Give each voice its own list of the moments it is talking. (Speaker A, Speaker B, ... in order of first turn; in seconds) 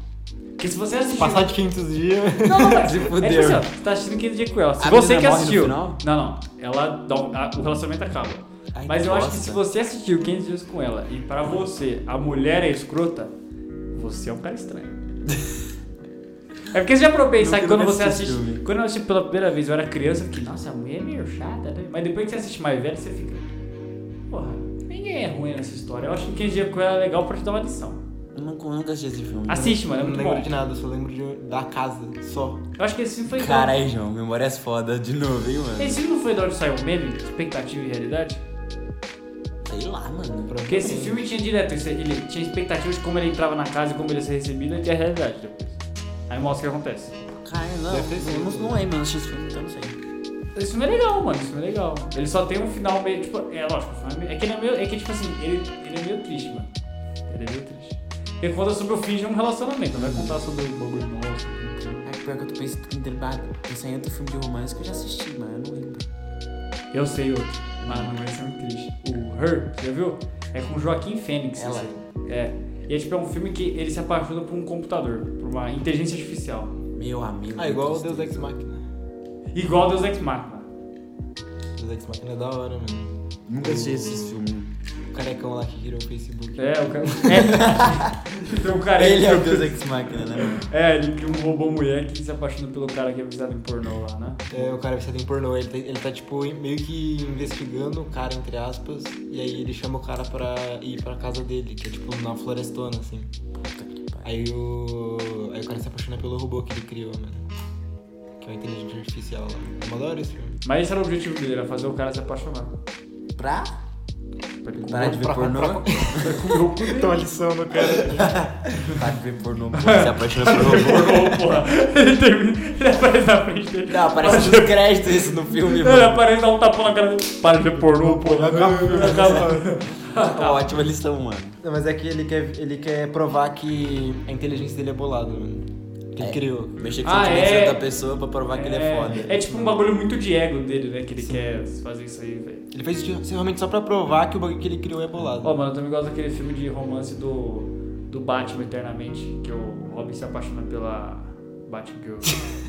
Speaker A: 0.6-1.5, 2.4-13.3, 13.9-15.0, 16.7-23.4, 24.3-28.0, 29.5-30.5, 32.8-33.8, 35.8-38.4, 40.6-47.2, 50.5-56.7, 57.3-62.0, 66.9-76.7, 79.5-80.7, 86.6-94.4, 110.6-112.7, 114.6-115.3, 116.1-117.2, 119.7-124.9, 125.5-130.7, 137.0-137.8, 138.5-142.6, 145.4-152.4
Speaker B: 1.2-2.9, 29.5-32.6, 40.5-41.3, 47.9-48.8, 77.5-78.8, 81.8-84.4, 85.1-87.7, 94.5-103.3, 104.2-107.5, 108.4-110.6, 114.7-118.5, 127.8-129.8, 131.6-136.8, 141.2-141.6, 142.7-145.6
Speaker C: 2.8-3.6, 4.8-6.0, 8.7-9.6, 17.4-18.6, 28.3-29.7, 33.3-36.0, 39.6-40.5, 47.4-50.0, 59.9-60.4, 62.0-66.0, 67.8-68.2, 71.5-71.9, 76.9-78.5, 83.5-84.7, 87.5-88.1, 89.0-90.6, 103.6-104.3, 113.4-113.7, 114.9-116.3, 118.1-121.4, 123.9-126.2, 130.3-131.6, 136.2-139.4